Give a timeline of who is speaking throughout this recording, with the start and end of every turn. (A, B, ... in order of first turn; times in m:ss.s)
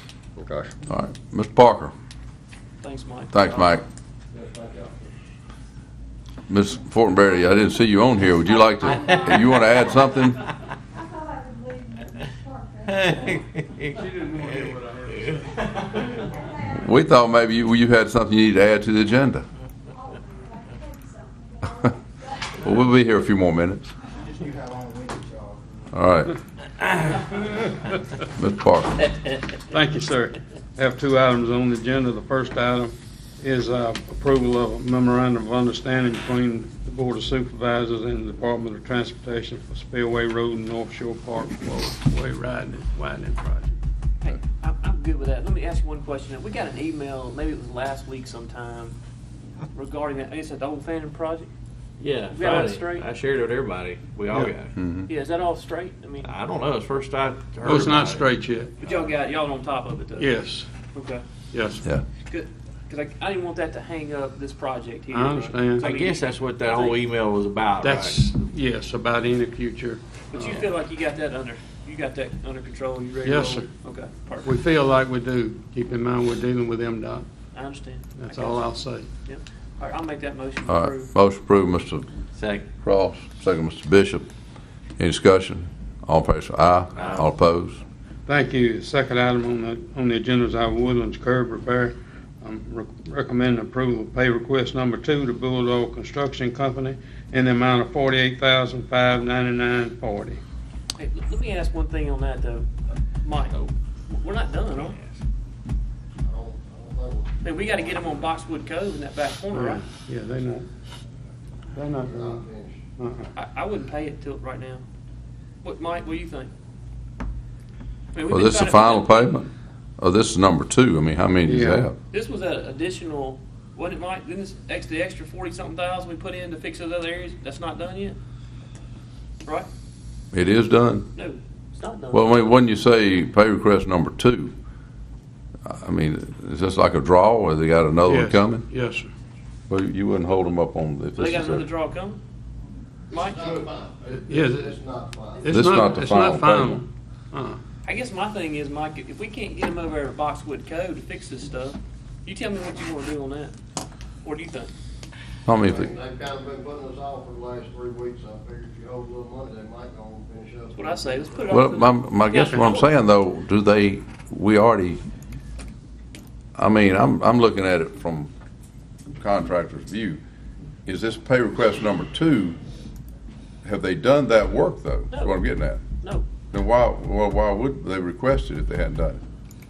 0:00.4-0:00.7 A
0:00.9-0:01.9 B
0:02.8-0:03.8 C
0:03.3-0:03.8 B
0:04.3-0:05.1 A
0:06.5-0:10.4 B
0:08.8-0:09.9 D
0:08.8-0:09.2 E
0:11.0-0:13.1 D
0:12.9-0:16.2 E
0:14.0-0:15.3 F
0:16.3-0:16.8 D
0:16.6-0:19.4 B
0:20.0-0:22.0 D
0:22.6-0:23.9 B
0:24.4-0:25.8 F
0:25.9-0:26.3 B
0:27.0-0:27.8 G
0:28.4-0:29.0 B
0:29.7-0:43.8 G
0:44.2-0:48.9 C
0:49.7-0:51.5 C
0:52.0-0:54.7 E
0:52.3-0:53.0 C
0:54.8-0:55.1 B
0:55.1-0:56.3 C
0:56.2-0:58.3 E
0:57.6-0:58.7 G
0:58.8-1:00.3 C
1:00.2-1:00.7 G
1:00.9-1:01.2 C
1:01.5-1:01.8 G
1:02.2-1:07.0 C
1:05.1-1:05.8 G
1:05.8-1:08.2 E
1:07.8-1:10.7 G
1:10.3-1:14.5 C
1:13.2-1:13.7 G
1:14.4-1:17.3 G
1:17.5-1:18.7 C
1:18.2-1:19.1 G
1:19.2-1:21.1 C
1:20.6-1:22.1 B
1:22.4-1:22.7 E
1:22.8-1:24.3 B
1:25.0-1:27.8 B
1:26.9-1:27.3 E
1:28.3-1:40.4 G
1:41.0-1:42.7 C
1:43.2-1:45.0 C
1:44.7-1:45.2 E
1:46.2-1:48.3 A
1:47.4-1:49.8 C
1:49.5-1:50.7 G
1:51.7-1:52.5 G
1:52.0-1:52.8 A
1:53.0-1:53.3 G
1:53.3-1:54.8 C
1:55.6-1:56.5 C
1:58.1-1:59.4 C
1:58.2-2:02.0 B
2:01.4-2:01.8 G
2:02.1-2:08.2 C
2:10.3-2:11.1 B
2:11.1-2:12.3 C
2:12.1-2:14.5 B
2:15.6-2:18.6 B
2:18.1-2:19.1 G
2:19.7-2:21.7 B
2:21.2-2:22.2 C
2:23.1-2:23.6 C
2:23.1-2:25.8 A
2:24.3-2:24.8 G
2:25.4-2:27.6 G
2:25.5-2:26.8 B
2:27.8-2:33.5 C
2:34.2-2:34.7 C
2:35.4-2:35.9 B
2:35.6-2:41.4 A
2:40.8-2:42.9 C
2:41.5-2:45.0 B
2:46.6-2:48.3 B
2:49.1-2:50.2 B
2:50.8-2:52.6 B
2:53.6-2:55.8 B
2:55.1-2:55.4 C
2:56.0-2:56.3 C
2:56.5-2:59.2 B